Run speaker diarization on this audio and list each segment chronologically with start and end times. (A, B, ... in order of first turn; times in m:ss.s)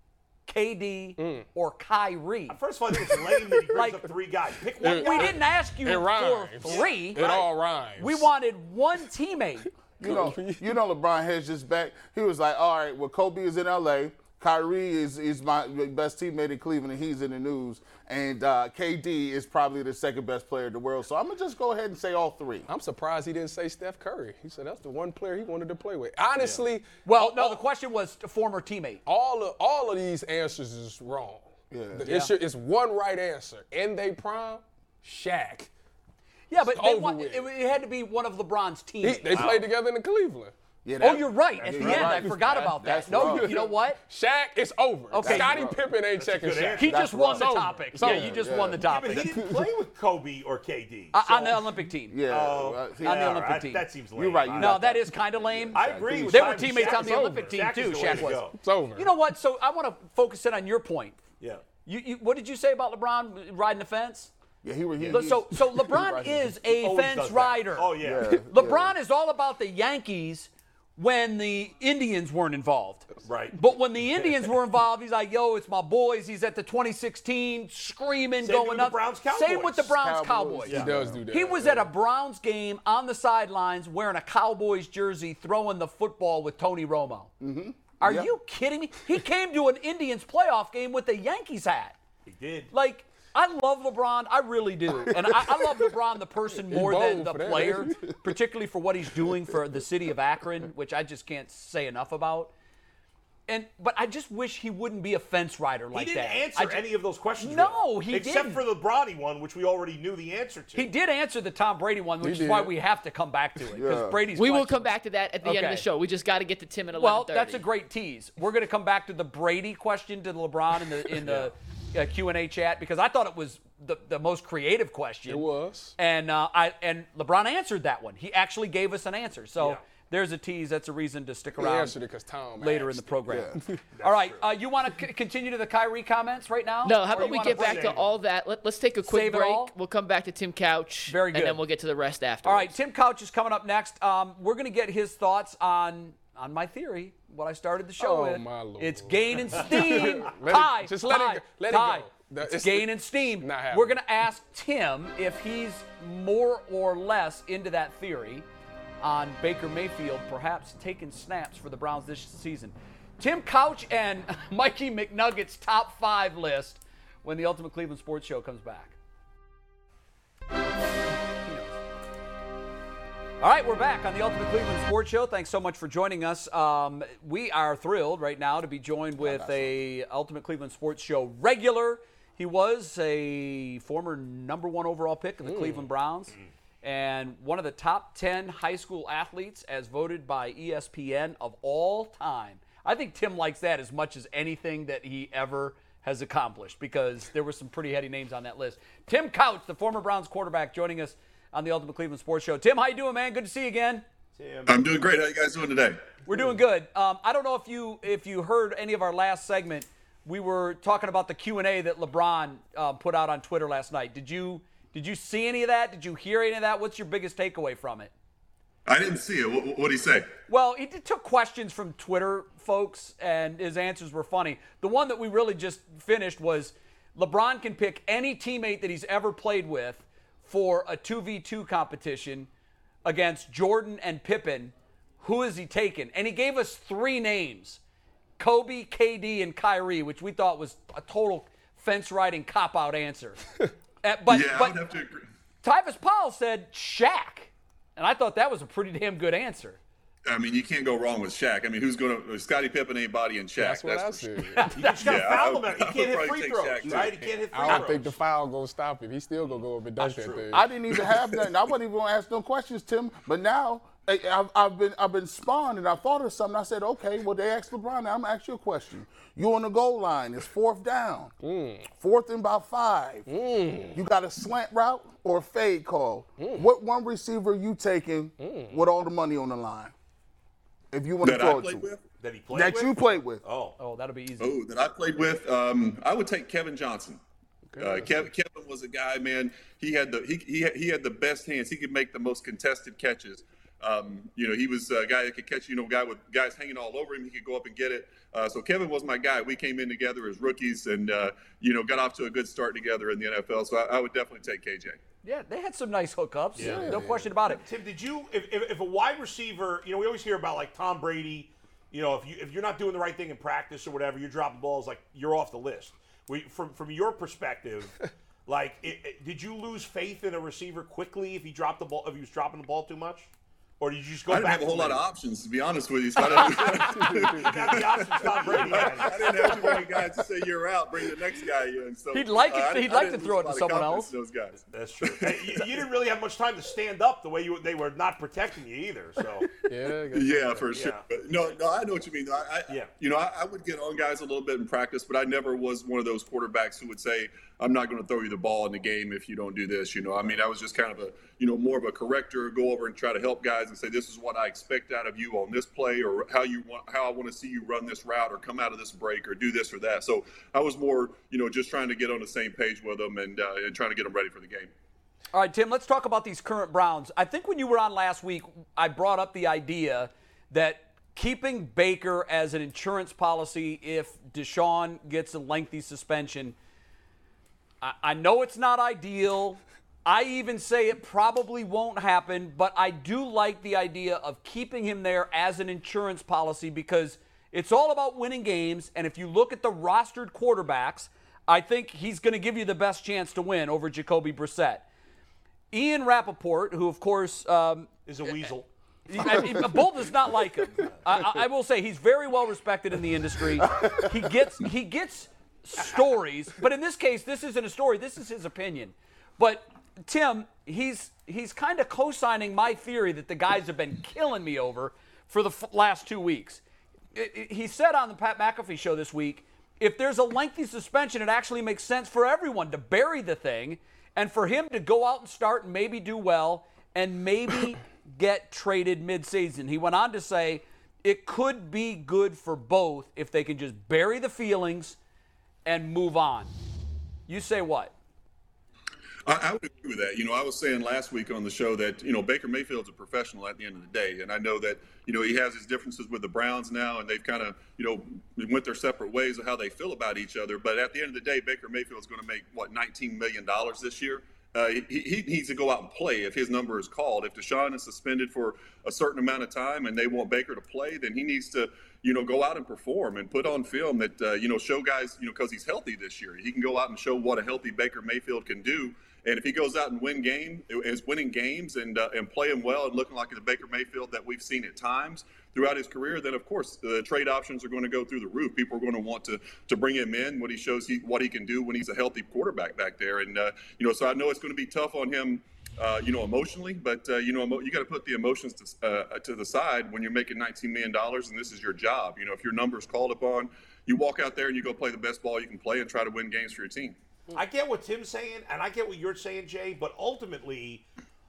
0:00.5-0:02.6 A
0:01.2-0:01.4 B
0:02.5-0:05.4 C
0:02.9-0:03.9 B
0:03.7-0:04.0 A
0:04.8-0:08.3 B
0:04.8-0:07.2 A
0:06.6-0:07.5 C
0:08.0-0:09.7 A
0:10.0-0:22.7 D
0:10.0-0:10.7 B
0:22.7-0:27.6 B
0:27.0-0:29.0 A
0:29.0-0:35.7 B
0:31.7-0:32.1 D
0:32.0-0:32.3 A
0:36.5-0:39.5 A
0:36.6-0:37.5 B
0:39.0-0:40.5 B
0:39.3-0:39.7 C
0:40.8-0:43.6 D
0:41.0-0:44.0 A
0:41.6-0:42.6 C
0:41.8-0:42.4 B
0:43.1-0:48.5 B
0:45.1-0:45.5 A
0:45.2-0:45.8 D
0:46.1-0:46.9 C
0:46.8-0:49.3 A
0:46.8-0:48.9 D
0:48.8-0:51.6 C
0:51.1-0:52.2 A
0:52.1-0:53.6 D
0:52.3-0:54.8 C
0:53.0-0:53.8 A
0:54.2-0:56.8 D
0:54.6-1:01.2 A
0:55.7-0:58.6 C
0:56.8-0:59.1 B
1:01.8-1:04.3 A
1:04.6-1:06.6 D
1:05.0-1:27.3 A
1:06.8-1:08.3 C
1:08.0-1:08.9 D
1:13.2-1:14.4 C
1:18.4-1:19.9 C
1:19.9-1:21.3 D
1:20.7-1:21.9 B
1:27.4-1:28.3 D
1:28.0-1:32.0 A
1:32.2-1:32.7 C
1:32.7-1:42.5 A
1:35.1-1:35.6 D
1:36.7-1:38.1 B
1:43.5-1:46.8 A
1:45.9-1:50.9 C
1:47.4-1:48.6 A
1:50.7-1:55.9 A
1:52.2-1:52.7 B
1:53.7-1:54.2 D
1:54.3-1:57.6 E
1:56.9-2:12.0 A
2:01.2-2:01.5 C
2:05.3-2:06.0 B
2:11.6-2:13.8 B
2:12.6-2:18.0 A
2:13.3-2:13.6 D
2:14.0-2:14.4 C
2:16.8-2:22.7 E
2:17.1-2:18.1 C
2:19.0-2:19.7 A
2:21.0-2:21.6 A
2:22.4-2:38.4 A
2:28.0-2:33.9 B
2:39.0-2:48.9 A
2:51.4-2:51.8 A
2:53.4-3:24.0 A
2:59.2-2:59.8 D
3:05.4-3:05.8 B
3:24.4-3:25.0 C
3:24.6-3:26.0 F
3:26.2-3:38.1 A
3:38.8-3:40.3 F
3:40.5-3:52.5 A
3:53.0-3:57.8 A
3:58.4-4:03.4 A
4:04.0-4:04.8 A
4:04.3-4:05.2 F
4:05.6-4:09.8 A
4:10.3-4:17.8 F
4:13.6-4:14.9 B
4:14.5-4:14.9 A
4:14.7-4:18.2 C
4:17.5-4:20.7 B
4:20.0-4:20.4 C
4:20.5-4:31.3 D
4:31.4-4:31.9 B
4:31.9-4:33.3 D
4:33.3-4:34.0 B
4:33.9-4:39.9 D
4:36.4-4:36.7 B
4:38.4-4:38.8 B
4:40.9-4:41.9 D
4:41.2-4:42.0 F
4:42.2-4:43.8 C
4:42.5-4:43.4 D
4:43.8-4:44.6 A
4:44.4-4:47.2 F
4:47.7-4:48.2 B
4:47.8-5:05.0 F
5:05.2-5:07.6 A
5:06.6-5:23.3 C
5:06.6-5:07.0 D
5:06.6-5:07.2 B
5:23.8-5:25.0 C
5:24.3-5:35.7 F
5:26.3-5:29.9 C
5:26.9-5:27.5 B
5:29.3-5:29.8 B
5:32.1-5:34.1 A
5:34.7-5:39.5 C
5:39.7-5:40.7 B
5:40.1-6:04.7 F
5:40.7-5:41.1 C
6:05.3-6:16.5 A
6:17.8-6:34.8 A
6:35.7-6:38.3 A
6:38.0-6:38.7 C
6:39.1-6:56.6 A
6:57.1-7:15.0 A
7:15.6-7:16.5 A
7:17.3-7:17.9 A
7:19.2-8:17.0 F
8:17.3-8:20.8 C